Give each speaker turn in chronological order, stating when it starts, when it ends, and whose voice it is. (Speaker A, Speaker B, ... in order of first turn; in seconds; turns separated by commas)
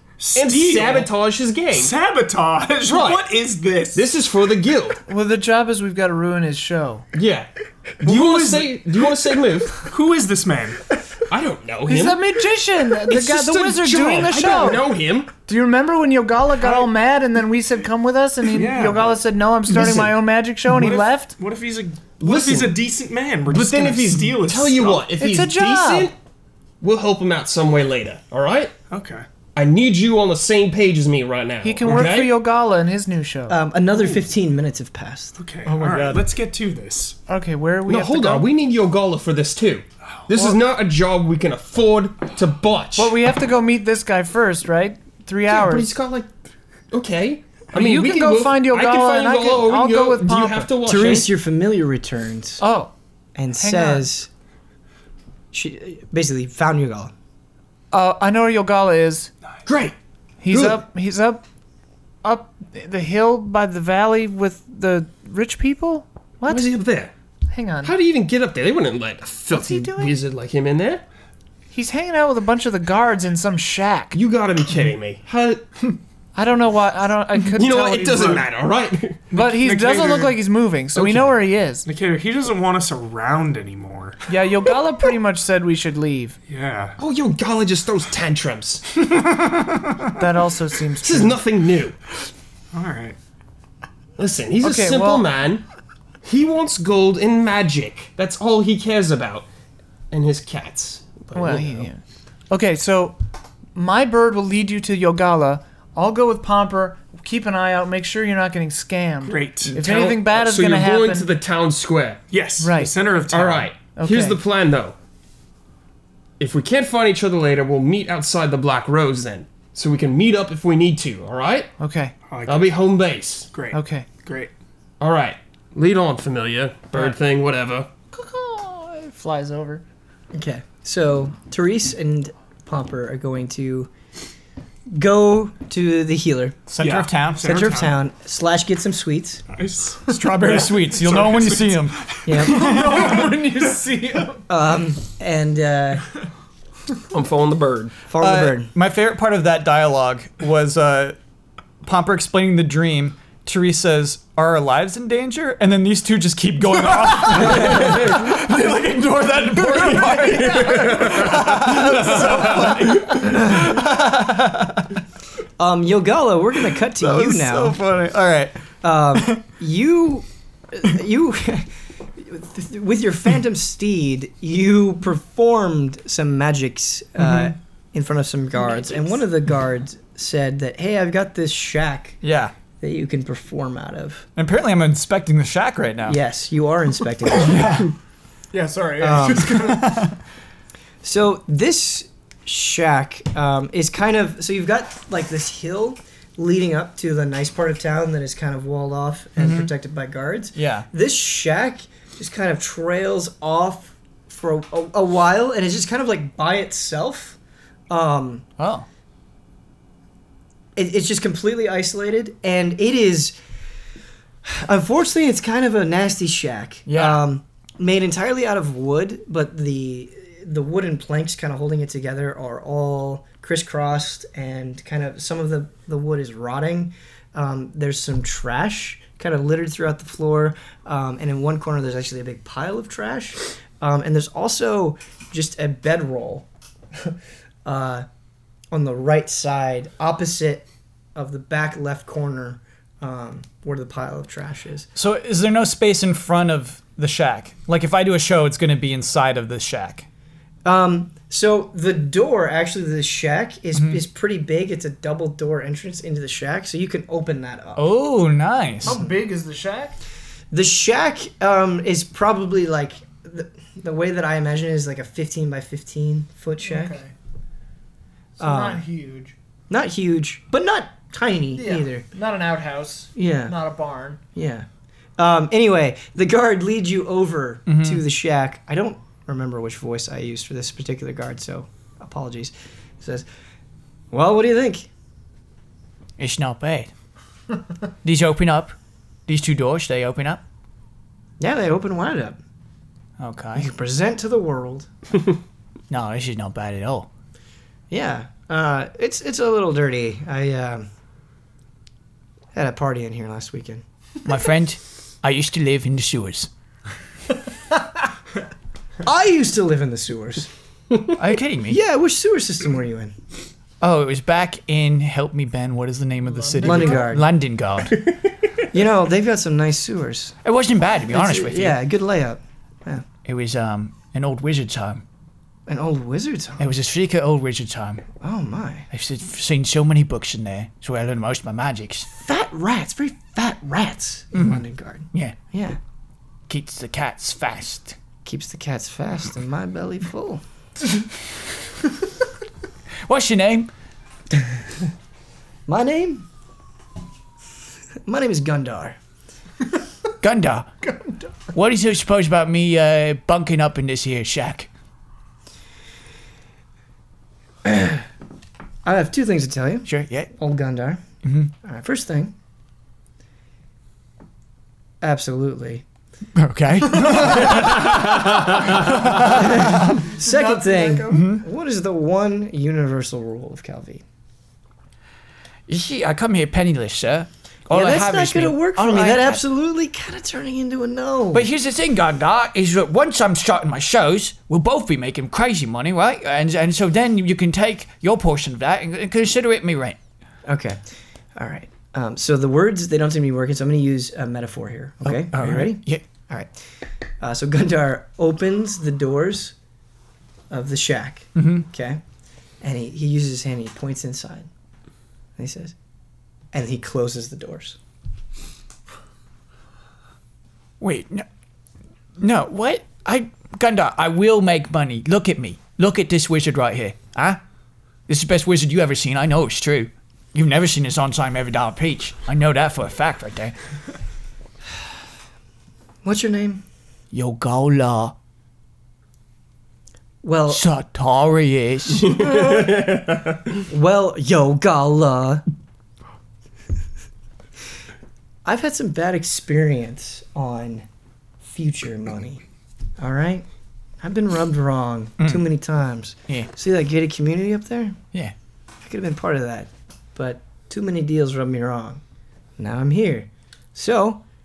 Speaker A: 0.2-1.1, Speaker B: 0.3-1.9, Speaker A: 1.7-4.0, Speaker B: 2.9-3.2, Speaker B: 3.9-5.0, Speaker C: 5.1-7.1, Speaker B: 7.1-7.5, Speaker A: 8.0-9.1, Speaker B: 8.0-9.9, Speaker A: 9.7-10.8, Speaker B: 11.3-12.4, Speaker C: 11.9-14.9, Speaker B: 12.9-15.3, Speaker C: 15.5-21.3, Speaker A: 18.5-19.1, Speaker B: 19.7-20.2, Speaker A: 20.7-25.1, Speaker B: 22.2-22.8, Speaker B: 23.5-26.1, Speaker C: 25.2-26.1, Speaker B: 26.8-28.7, Speaker A: 28.9-29.3, Speaker B: 29.6-32.4, Speaker C: 31.6-33.6, Speaker D: 33.5-35.4, Speaker A: 35.4-37.2, Speaker E: 35.7-36.2, Speaker C: 37.3-38.5, Speaker B: 37.9-43.1, Speaker C: 43.0-45.9, Speaker B: 45.5-46.3, Speaker B: 46.9-51.3, Speaker C: 47.7-50.7, Speaker D: 50.9-52.6, Speaker C: 52.6-52.9, Speaker D: 53.4-54.3, Speaker C: 53.6-54.1, Speaker D: 55.5-57.1, Speaker C: 57.9-59.3, Speaker B: 59.7-60.0, Speaker C: 60.4-61.4, Speaker B: 60.5-60.8, Speaker C: 62.2-66.7, Speaker B: 66.5-67.1, Speaker C: 67.5-67.9, Speaker B: 67.8-71.0, Speaker C: 69.5-70.1, Speaker C: 71.7-74.2, Speaker B: 74.1-75.8, Speaker C: 76.3-78.5, Speaker B: 77.6-79.3, Speaker A: 79.3-80.4, Speaker C: 79.3-81.8, Speaker B: 80.9-81.4, Speaker A: 81.8-84.2, Speaker C: 84.3-86.4, Speaker A: 86.5-87.0, Speaker B: 87.0-89.0, Speaker C: 90.2-91.4, Speaker B: 91.0-92.0, Speaker A: 92.7-93.2, Speaker B: 94.2-95.6, Speaker C: 94.6-95.3, Speaker B: 96.2-99.5, Speaker B: 100.1-101.9, Speaker C: 101.3-103.2, Speaker C: 103.8-111.3, Speaker A: 109.2-109.8, Speaker B: 109.7-112.2, Speaker A: 112.3-113.7, Speaker C: 112.6-112.9, Speaker B: 113.3-115.0, Speaker C: 114.0-114.4, Speaker B: 116.4-121.7, Speaker C: 121.8-122.1, Speaker A: 122.3-122.8, Speaker B: 122.5-123.5, Speaker A: 123.5-124.5, Speaker C: 123.7-124.1, Speaker B: 125.0-127.9, Speaker C: 128.1-129.8, Speaker D: 130.3-133.9, Speaker D: 134.9-136.6, Speaker E: 136.7-137.5, Speaker A: 136.8-138.0, Speaker D: 137.4-139.4, Speaker A: 139.5-143.2, Speaker E: 140.1-142.1, Speaker D: 142.2-143.1, Speaker C: 142.4-144.4, Speaker D: 144.5-146.1, Speaker B: 147.1-148.0, Speaker D: 148.1-148.7, Speaker E: 148.2-151.2, Speaker E: 151.8-164.9, Speaker D: 157.4-157.9, Speaker B: 160.6-161.3, Speaker D: 163.1-163.9, Speaker D: 165.6-167.8, Speaker E: 166.8-169.4, Speaker D: 168.8-182.2, Speaker E: 177.2-177.5, Speaker E: 182.2-182.5, Speaker D: 182.8-184.3, Speaker E: 184.4-186.2, Speaker D: 186.1-187.9, Speaker E: 187.4-187.9, Speaker A: 188.5-189.8, Speaker D: 189.0-189.8, Speaker E: 189.5-190.2, Speaker D: 191.0-207.4, Speaker E: 199.4-199.7, Speaker E: 200.6-200.9, Speaker D: 207.9-208.5, Speaker E: 208.6-208.9, Speaker D: 210.8-213.4, Speaker D: 214.4-238.1, Speaker E: 216.9-217.2, Speaker D: 238.7-244.9, Speaker E: 244.9-250.1, Speaker D: 250.7-257.9, Speaker E: 253.8-254.0, Speaker E: 257.8-259.0, Speaker D: 258.8-259.1, Speaker C: 258.8-260.0, Speaker D: 260.5-267.0, Speaker C: 266.6-267.1, Speaker D: 268.4-268.8, Speaker C: 268.4-269.3, Speaker D: 269.7-272.1, Speaker C: 271.6-274.2, Speaker D: 273.2-273.6, Speaker D: 274.4-274.7, Speaker D: 275.2-283.3, Speaker E: 277.7-278.0, Speaker D: 284.1-284.9, Speaker E: 286.2-286.9, Speaker E: 288.0-288.8, Speaker E: 289.3-290.4, Speaker D: 291.4-292.4, Speaker E: 293.2-293.7, Speaker D: 293.6-294.9, Speaker E: 295.9-297.1, Speaker D: 297.9-300.9, Speaker D: 302.5-303.8, Speaker E: 304.2-306.5, Speaker D: 309.0-310.5, Speaker E: 311.2-311.8, Speaker D: 311.7-313.1, Speaker E: 313.8-318.0, Speaker C: 316.3-316.9, Speaker D: 316.6-317.3, Speaker D: 318.7-320.4, Speaker E: 320.4-321.8, Speaker D: 321.1-323.1, Speaker E: 323.2-325.0, Speaker D: 325.7-326.7, Speaker E: 326.6-328.1, Speaker D: 328.2-328.9, Speaker E: 328.9-332.1, Speaker D: 332.1-335.8, Speaker E: 335.1-335.4, Speaker E: 336.5-338.0, Speaker D: 338.2-340.4, Speaker E: 343.0-343.7, Speaker D: 345.7-346.3, Speaker D: 348.1-349.0, Speaker E: 350.2-350.8, Speaker E: 351.5-354.7, Speaker D: 357.6-358.1, Speaker D: 358.8-361.0, Speaker E: 359.9-360.3, Speaker E: 361.2-361.5, Speaker D: 361.6-362.4, Speaker D: 365.0-365.8, Speaker E: 366.4-370.0, Speaker D: 367.2-367.7, Speaker D: 369.2-374.0, Speaker C: 370.1-371.3, Speaker E: 371.1-371.4, Speaker E: 375.7-379.4, Speaker D: 377.7-381.5, Speaker E: 381.3-390.0, Speaker D: 390.4-390.8, Speaker D: 391.4-396.5, Speaker E: 395.1-396.0, Speaker D: 397.2-399.6, Speaker D: 400.5-402.0, Speaker E: 401.4-401.7, Speaker D: 402.6-404.5, Speaker D: 405.4-405.8, Speaker D: 406.5-407.8, Speaker E: 410.8-411.3, Speaker E: 412.2-417.4, Speaker E: 418.1-423.6, Speaker D: 426.0-426.6, Speaker E: 427.1-428.1, Speaker D: 430.2-430.6, Speaker E: 430.5-432.5, Speaker B: 432.1-433.4, Speaker D: 433.7-435.4, Speaker D: 438.4-440.9, Speaker D: 441.4-442.4, Speaker D: 443.0-443.5, Speaker D: 444.0-448.0, Speaker D: 448.8-452.0, Speaker D: 452.6-454.2